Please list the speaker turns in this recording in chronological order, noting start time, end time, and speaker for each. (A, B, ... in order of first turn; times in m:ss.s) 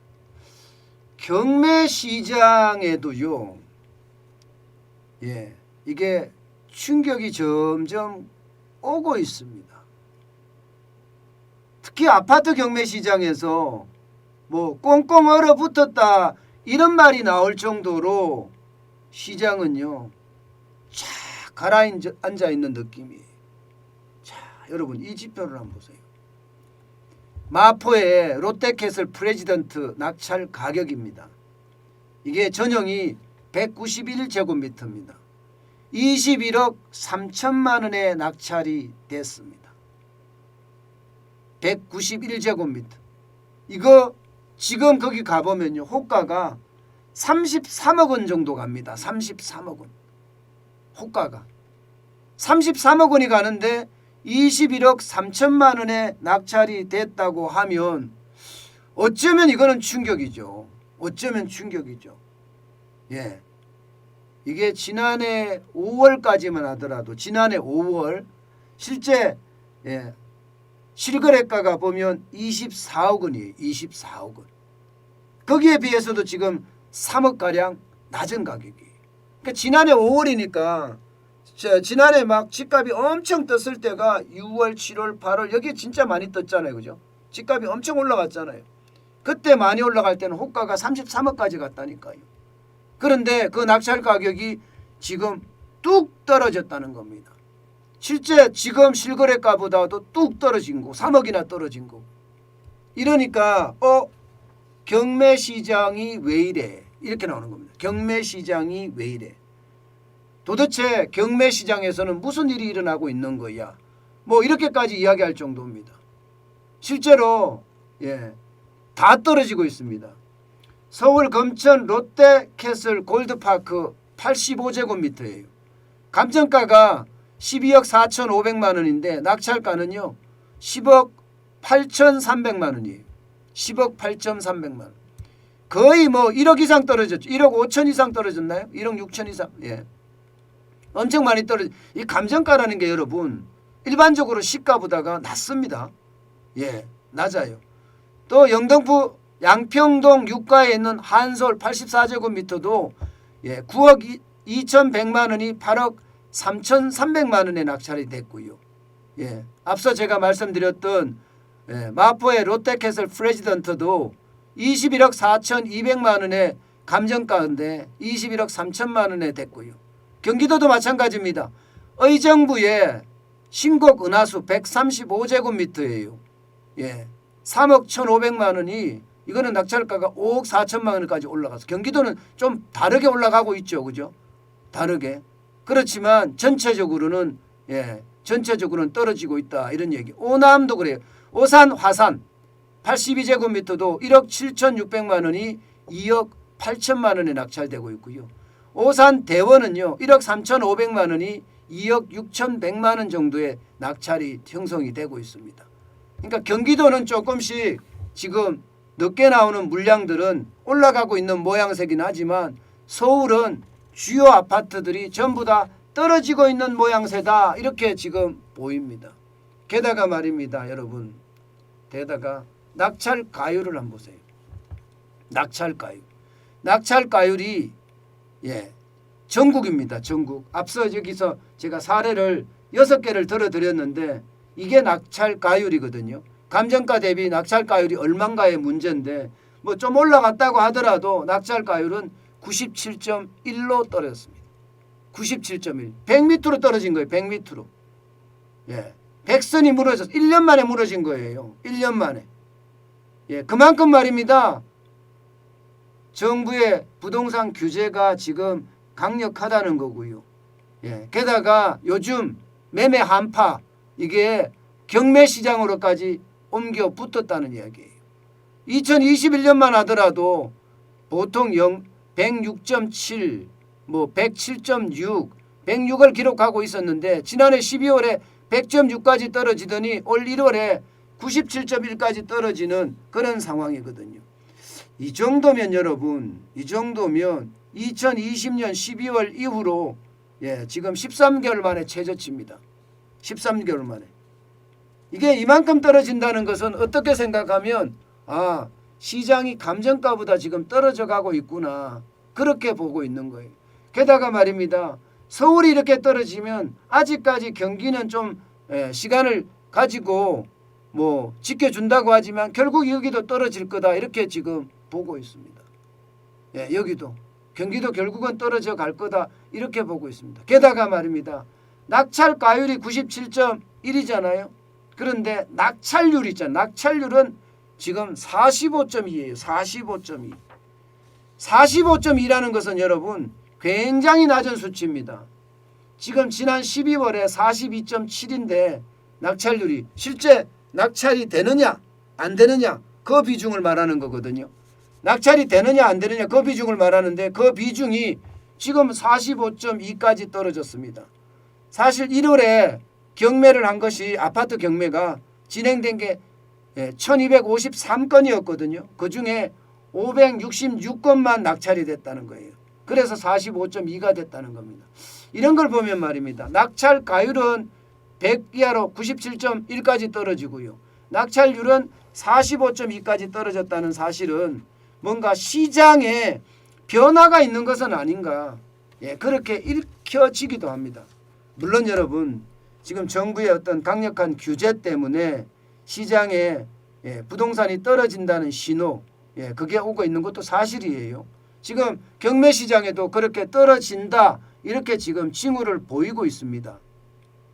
0:01.2-0:03.6 A
0:05.2-0:08.3 A
0:08.8-0:09.8 A
0:11.8-0:13.9 A
0:14.5-0:18.5 A
0:19.1-0:20.1 A
0:20.9-0:23.3 A
0:24.2-0:26.0 A
0:27.5-0:31.3 A
0:32.2-0:35.2 A
0:35.9-0:39.7 A
0:41.6-0:43.0 A
0:43.7-0:46.6 A
0:47.1-0:49.9 A
0:51.0-0:51.5 A
0:52.4-0:58.2 A
0:59.0-1:02.2 A
1:03.1-1:03.4 A
1:04.4-1:10.2 A
1:11.0-1:14.5 A
1:15.4-1:18.9 A
1:19.4-1:28.7 A
1:29.2-1:32.3 A
1:33.0-1:37.4 A
1:38.0-1:42.1 A
1:43.0-1:44.1 A
1:44.8-1:49.4 A
1:50.4-1:56.0 A
1:56.8-1:58.4 A
1:59.0-2:00.2 A
2:00.9-2:05.5 A
2:06.1-2:15.0 A
2:15.7-2:19.9 A
2:20.9-2:25.9 A
2:26.6-2:27.6 A
2:28.3-2:38.6 A
2:39.2-2:56.2 A
2:56.8-3:04.1 A
3:04.7-3:12.2 A
3:12.8-3:25.7 A
3:26.2-3:39.2 A
3:39.7-3:41.2 A
3:41.9-3:44.2 A
3:45.3-3:46.1 A
3:46.6-3:47.8 A
3:48.4-3:48.8 A
3:49.3-4:04.4 A
4:05.1-4:07.7 A
4:08.7-4:12.3 A
4:13.3-4:14.6 A
4:16.1-4:20.2 A
4:20.8-4:27.9 A
4:28.7-4:30.6 A
4:31.1-4:44.2 A
4:45.0-4:52.6 A
4:53.2-4:54.1 A
4:55.1-5:15.6 A
5:16.5-5:30.4 A
5:31.4-5:35.3 A
5:36.0-5:44.5 A
5:45.0-5:51.1 A
5:51.7-5:56.2 A
5:56.8-6:36.8 A